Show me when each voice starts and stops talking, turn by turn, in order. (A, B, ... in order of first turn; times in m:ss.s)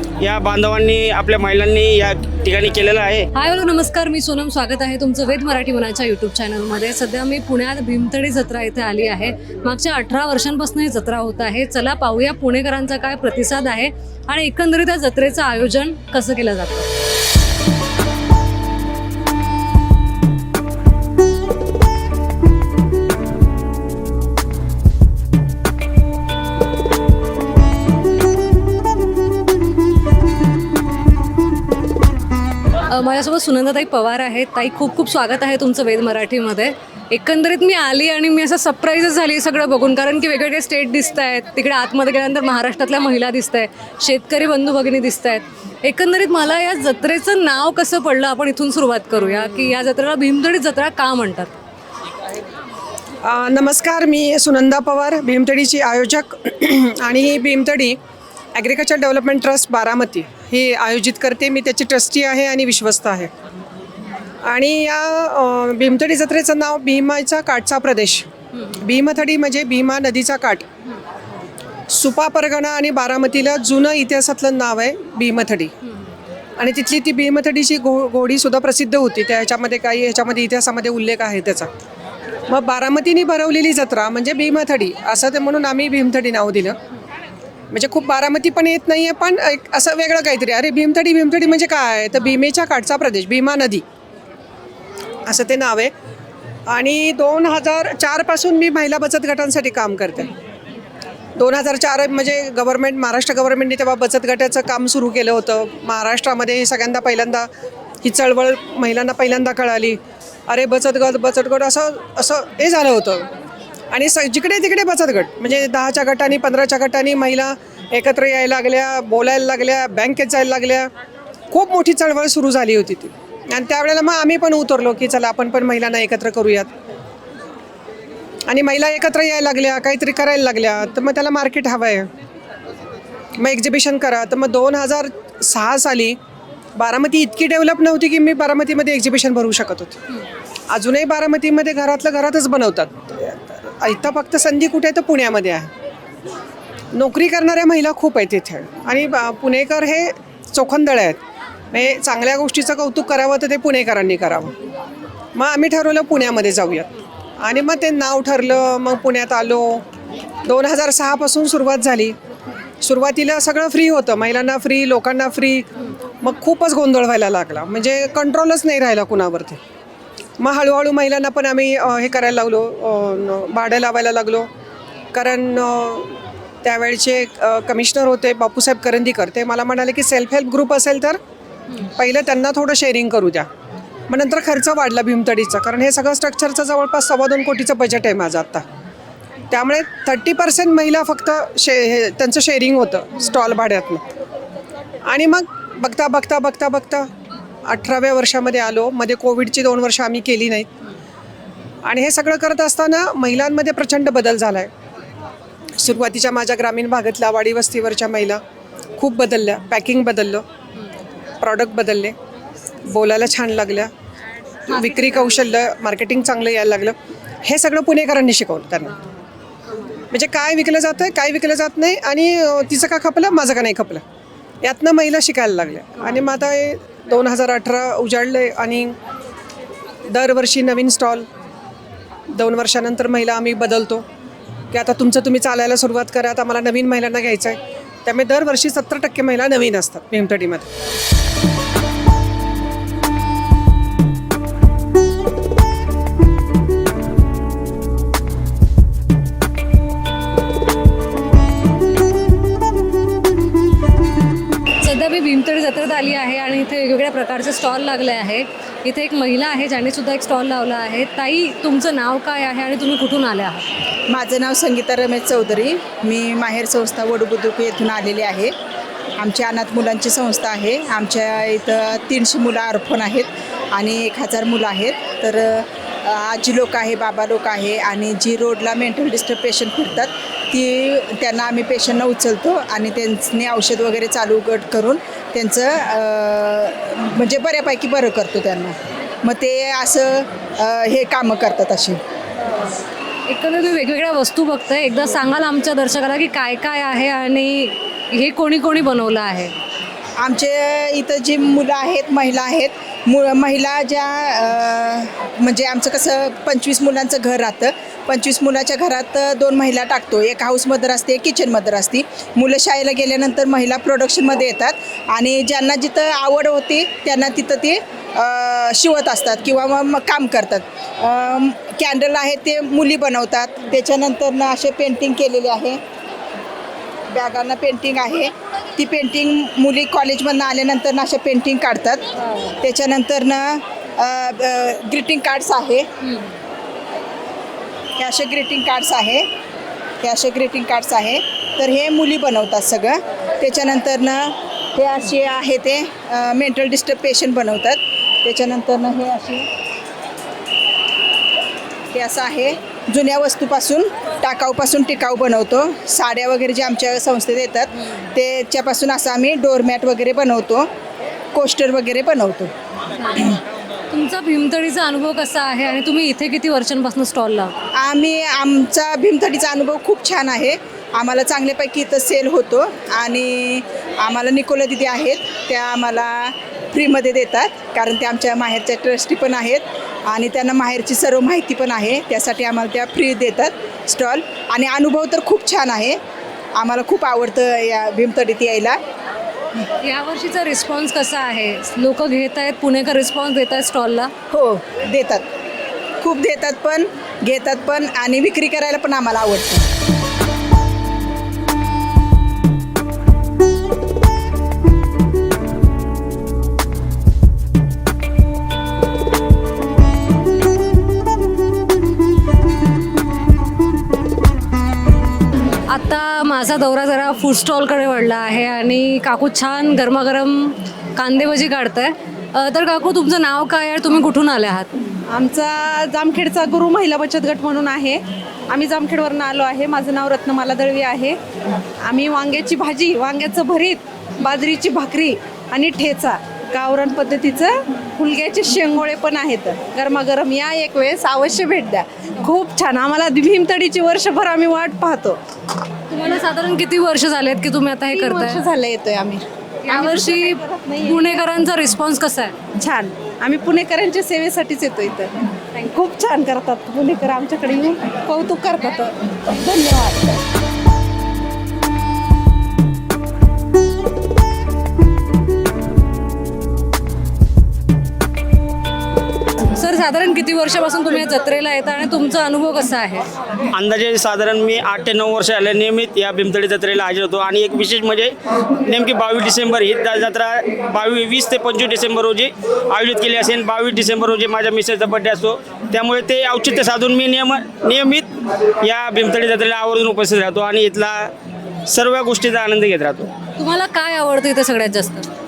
0:00.2-0:03.3 A
0:03.3-0:16.8 B
0:32.9-0:51.5 B
0:53.2-0:58.0 C
0:58.5-1:03.3 C
1:04.4-1:10.7 C
1:11.9-1:15.7 C
1:16.6-1:21.7 C
1:22.5-1:26.8 C
1:27.7-1:33.8 C
1:35.2-1:35.9 C
1:36.7-1:40.3 C
1:41.4-1:47.5 C
1:48.0-1:53.3 C
1:53.9-2:00.9 C
2:01.5-2:06.7 C
2:08.5-2:12.1 C
2:13.4-2:16.2 C
2:16.8-2:20.0 C
2:20.7-2:25.7 C
2:26.9-2:31.2 C
2:31.7-2:34.5 C
2:35.3-2:36.9 C
2:37.4-2:39.8 C
2:40.4-2:42.1 C
2:42.8-2:49.6 C
2:50.4-2:54.5 C
2:55.1-3:01.2 C
3:01.8-3:03.5 C
3:04.1-3:08.6 C
3:09.5-3:14.0 C
3:15.0-3:17.1 C
3:17.6-3:20.7 C
3:21.8-3:24.7 C
3:25.8-3:28.4 C
3:29.0-3:30.4 C
3:31.4-3:32.1 C
3:32.9-3:33.9 C
3:34.7-3:38.9 C
3:40.1-3:44.0 C
3:44.6-3:48.9 C
3:50.1-3:51.3 C
3:52.3-3:54.0 C
3:54.7-4:00.7 C
4:14.8-4:23.6 B
4:24.1-4:28.5 D
4:29.2-4:52.0 D
4:53.3-4:59.5 B
5:00.2-5:25.8 D
5:27.1-5:35.9 D
5:38.0-5:39.3 D
5:40.0-5:49.5 D
5:51.9-6:00.7 D
6:01.3-6:02.5 D
6:03.9-6:07.5 B
6:07.8-6:26.0 D
6:26.6-6:28.8 D
6:29.8-6:34.1 B
6:34.3-6:35.2 D
6:36.0-6:39.6 D
6:55.7-7:04.7 B
7:05.1-7:11.2 E
7:11.8-7:25.2 E
7:25.9-7:28.4 B
7:27.9-7:31.1 E
7:29.6-7:32.3 B
7:32.6-7:40.2 E
7:49.5-7:53.1 B
7:53.5-8:11.1 A
8:11.7-8:13.1 A
8:13.4-8:15.1 B